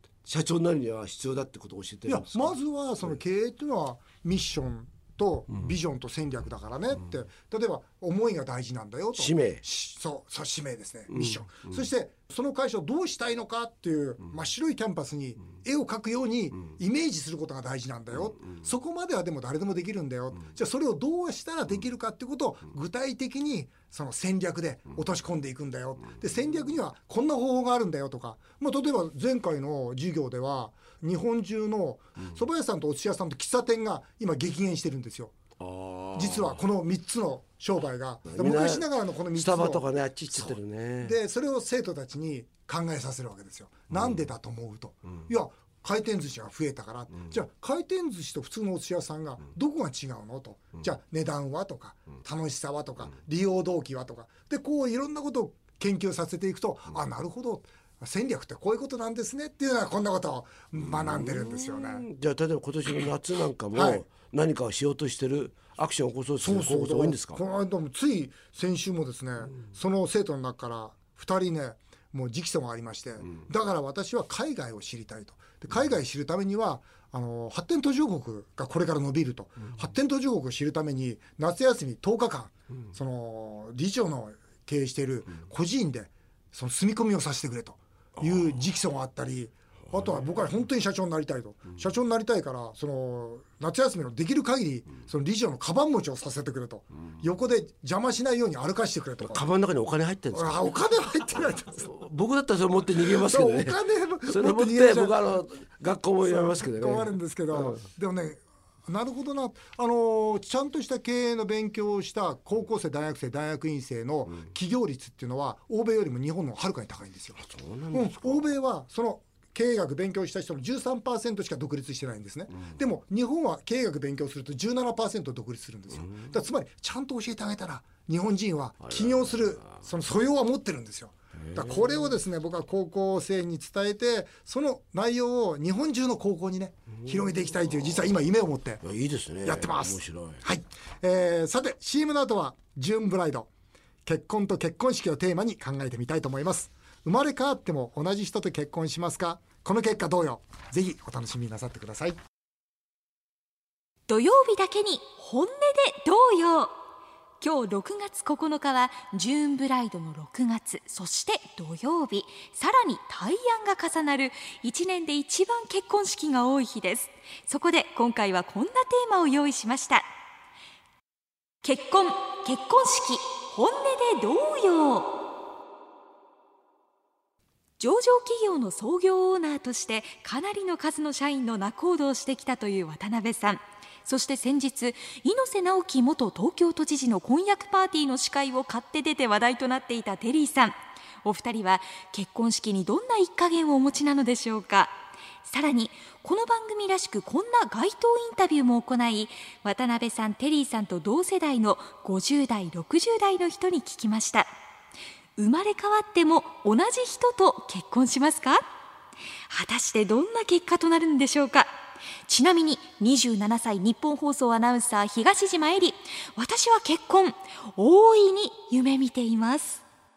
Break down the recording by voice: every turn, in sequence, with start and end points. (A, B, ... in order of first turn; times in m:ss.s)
0:00.3-0:02.6 A
0:02.1-0:35.3 B
0:09.2-0:09.6 A
0:11.1-0:11.8 A
0:35.6-0:36.6 A
0:36.2-1:02.0 B
0:38.3-0:41.2 A
0:43.9-0:44.2 A
1:00.8-1:07.4 A
1:03.7-1:04.0 B
1:06.4-1:39.4 B
1:39.2-1:40.7 A
1:40.3-1:41.9 B
1:41.7-1:47.8 A
1:43.2-1:45.2 B
1:46.3-2:18.8 B
1:57.4-1:58.4 A
2:08.8-2:09.3 A
2:11.4-2:12.1 A
2:17.7-2:18.0 A
2:18.8-2:20.4 A
2:19.4-2:23.5 B
2:24.0-2:32.2 B
2:34.1-2:36.8 C
2:37.4-2:50.1 C
2:51.6-2:55.2 C
2:57.8-3:24.5 C
3:25.4-3:28.6 C
3:29.5-3:31.7 C
3:32.3-3:39.8 C